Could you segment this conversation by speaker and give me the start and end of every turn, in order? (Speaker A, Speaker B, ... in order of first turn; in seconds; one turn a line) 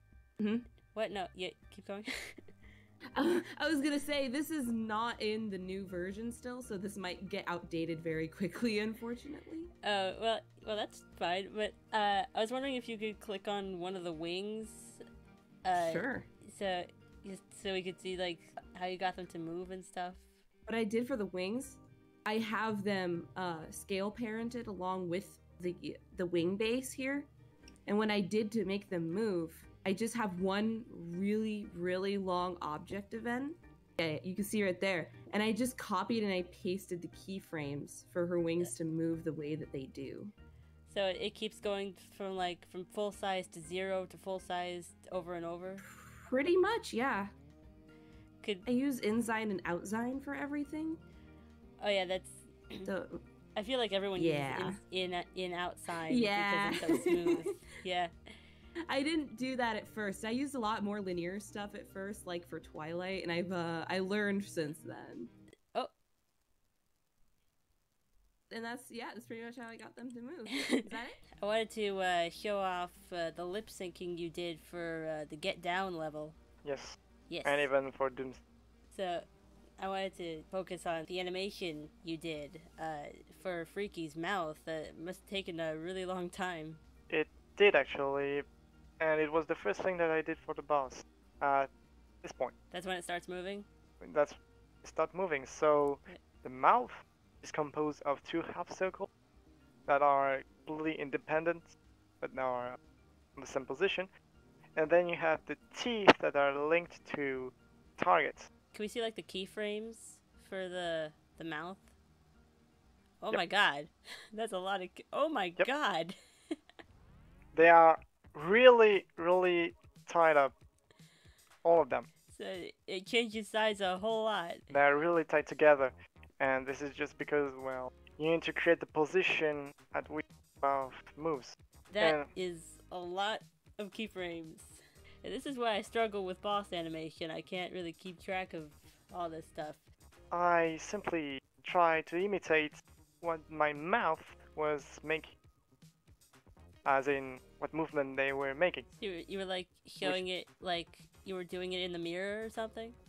Speaker A: 0.4-0.6
Speaker B: 0.9-2.4
Speaker A: 3.1-9.7
Speaker B: 9.8-15.0
Speaker B: 15.6-20.3
Speaker A: 15.7-16.3
Speaker A: 20.7-27.3
Speaker A: 27.9-40.3
Speaker B: 40.9-45.8
Speaker A: 45.9-47.3
Speaker A: 48.6-51.0
Speaker B: 51.8-52.9
Speaker A: 52.8-53.2
Speaker B: 53.5-58.1
Speaker A: 54.1-54.8
Speaker A: 56.1-57.5
Speaker A: 58.9-65.3
Speaker A: 68.5-71.2
Speaker B: 70.5-76.3
Speaker C: 76.6-78.4
Speaker B: 77.3-77.7
Speaker B: 78.9-79.2
Speaker B: 79.8-86.8
Speaker C: 87.1-88.5
Speaker C: 89.0-91.7
Speaker C: 92.2-92.5
Speaker B: 92.7-93.7
Speaker C: 94.0-99.1
Speaker C: 99.9-102.8
Speaker C: 103.3-104.1
Speaker C: 104.8-108.5
Speaker B: 108.7-111.9
Speaker B: 113.2-116.2
Speaker C: 117.5-120.5
Speaker C: 121.6-122.1
Speaker B: 122.3-124.6
Speaker C: 124.7-132.3
Speaker B: 131.9-139.8
Speaker C: 140.3-145.3
Speaker C: 146.8-148.9
Speaker B: 149.0-153.0